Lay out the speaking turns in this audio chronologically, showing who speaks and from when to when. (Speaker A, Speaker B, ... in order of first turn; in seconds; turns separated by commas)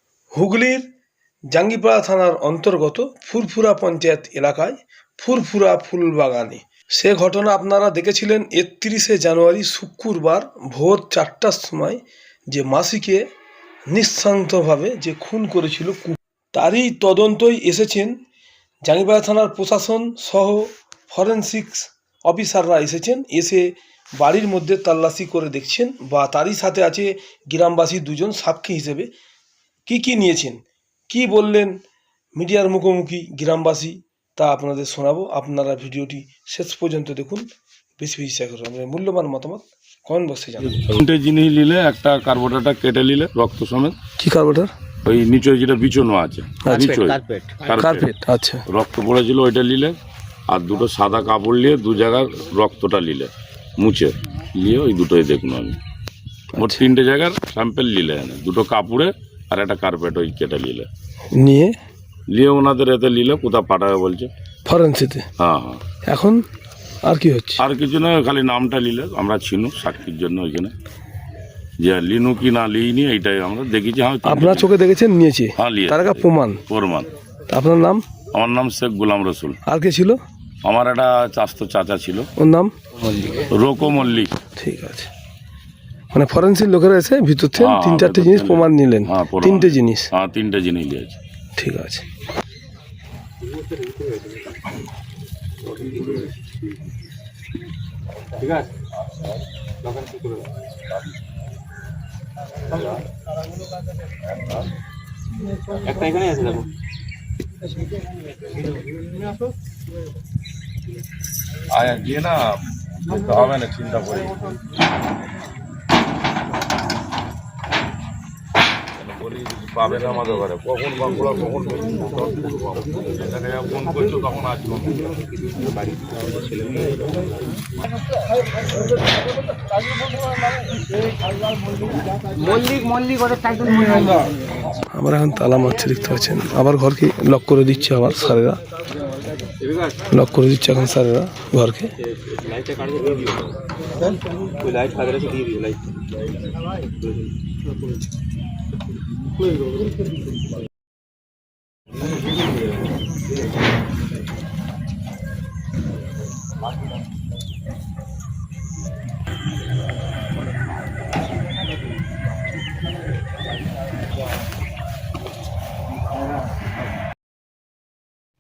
Speaker A: 0.3-0.9, Speaker A: 1.5-13.3, Speaker A: 13.9-18.2, Speaker A: 18.8-29.1, Speaker A: 29.9-31.8, Speaker A: 32.4-37.5, Speaker A: 38.0-40.9, Speaker B: 40.8-44.0, Speaker A: 44.2-44.7, Speaker B: 45.0-48.1, Speaker A: 46.6-46.9, Speaker A: 47.7-48.6, Speaker B: 48.7-50.0, Speaker B: 50.5-55.8, Speaker A: 56.5-56.8, Speaker B: 56.5-60.9, Speaker A: 61.3-61.7, Speaker B: 62.3-64.3, Speaker A: 64.7-65.3, Speaker B: 65.4-65.8, Speaker A: 66.1-66.4, Speaker A: 67.0-67.6, Speaker B: 67.6-70.7, Speaker B: 71.8-74.7, Speaker A: 74.2-76.6, Speaker B: 75.6-77.1, Speaker A: 77.5-78.0, Speaker B: 78.3-79.6, Speaker A: 79.7-80.2, Speaker B: 80.6-82.3, Speaker A: 82.4-82.7, Speaker B: 83.2-84.3, Speaker A: 84.5-85.1, Speaker A: 86.1-90.1, Speaker B: 87.6-91.2, Speaker A: 91.6-92.0, Speaker C: 93.5-94.4, Speaker C: 95.8-96.5, Speaker C: 98.4-98.7, Speaker C: 99.8-100.5, Speaker C: 105.8-106.7, Speaker B: 111.7-114.3, Speaker B: 119.0-125.1, Speaker C: 125.4-127.2, Speaker C: 132.4-134.3, Speaker A: 134.9-138.6, Speaker C: 139.6-139.9, Speaker A: 140.1-141.9, Speaker C: 142.2-145.8